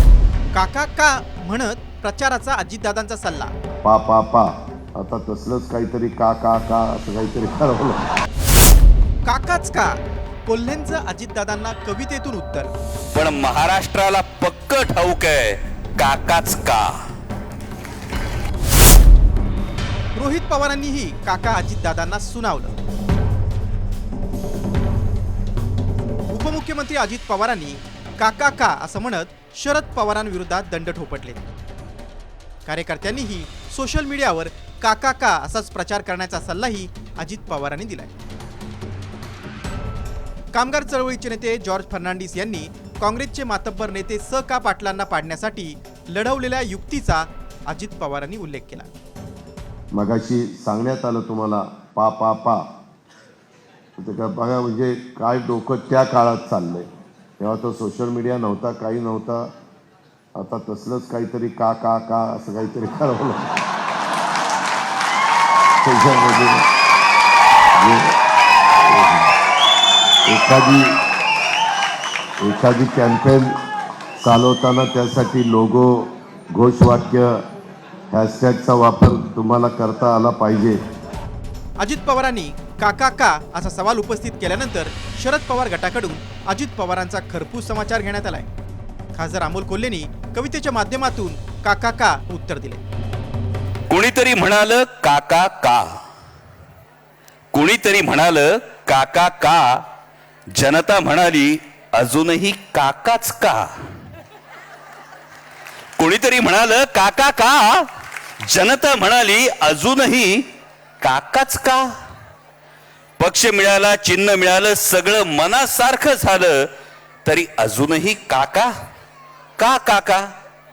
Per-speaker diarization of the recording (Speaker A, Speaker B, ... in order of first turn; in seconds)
Speaker A: 0.5-3.5, 9.3-12.7, 20.1-22.8, 26.3-31.5, 32.7-38.1, 40.5-48.9, 81.8-88.5, 89.2-92.8
Speaker B: 3.8-8.1, 49.9-52.6, 54.0-56.9, 57.4-59.5, 60.4-63.6, 65.8-66.7, 67.8-68.1, 68.9-69.3, 70.3-71.0, 72.4-73.5, 74.2-77.4, 78.1-80.8
Speaker C: 13.2-16.9, 93.9-95.8, 97.5-99.8, 100.5-103.7, 106.0-107.8, 108.5-110.5, 111.0-111.9, 113.2-116.7, 117.2-118.7, 119.6-120.3